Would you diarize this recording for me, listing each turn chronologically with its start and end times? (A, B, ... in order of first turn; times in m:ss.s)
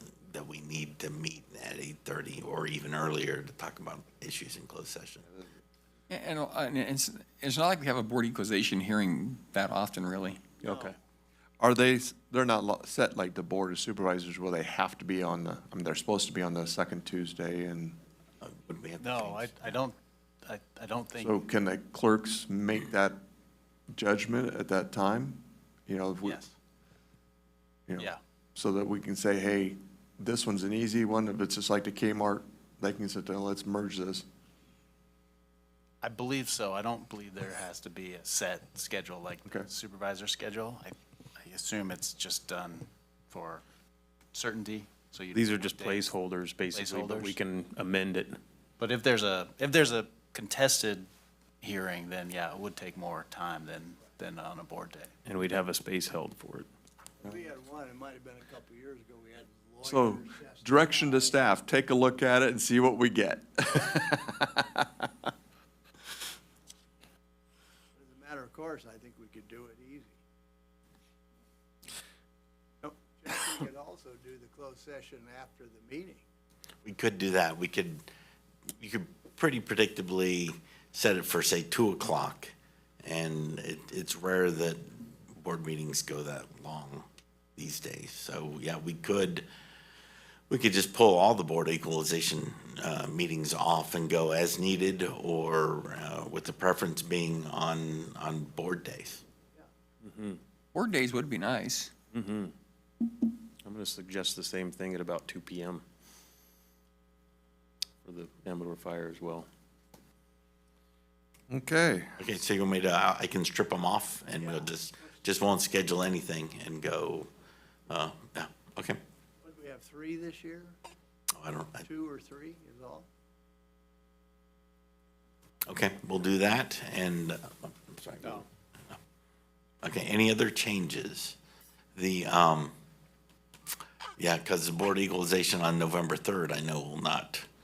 0:00.3-0:05.2 A
0:06.1-0:10.5 B
0:10.6-0:10.9 C
0:11.6-0:18.0 D
0:18.4-0:19.8 A
0:19.0-0:21.4 C
0:21.2-0:23.2 D
0:23.9-0:26.4 D
0:26.2-0:26.5 C
0:27.9-0:34.2 D
0:36.0-0:43.6 C
0:44.3-0:46.1 C
0:45.3-0:48.4 E
0:46.7-0:47.4 C
0:48.8-0:51.1 C
0:51.6-0:55.1 C
0:55.2-0:56.7 E
0:57.2-1:01.5 F
0:59.8-1:05.1 D
1:08.0-1:10.2 F
1:12.8-1:16.2 F
1:16.8-1:18.0 A
1:18.8-1:22.5 A
1:23.0-1:27.0 A
1:27.6-1:29.4 A
1:30.5-1:39.2 A
1:40.0-1:40.4 E
1:40.7-1:41.9 B
1:42.1-1:42.5 E
1:43.6-1:45.8 E
1:48.0-1:49.5 E
1:51.5-1:52.2 D
1:52.2-1:57.3 A
1:57.9-1:59.0 A
1:59.4-2:00.8 F
2:01.4-2:01.8 A
2:01.8-2:03.1 F
2:05.7-2:08.5 A
2:09.8-2:11.4 A
2:12.0-2:12.7 A
2:14.2-2:17.5 A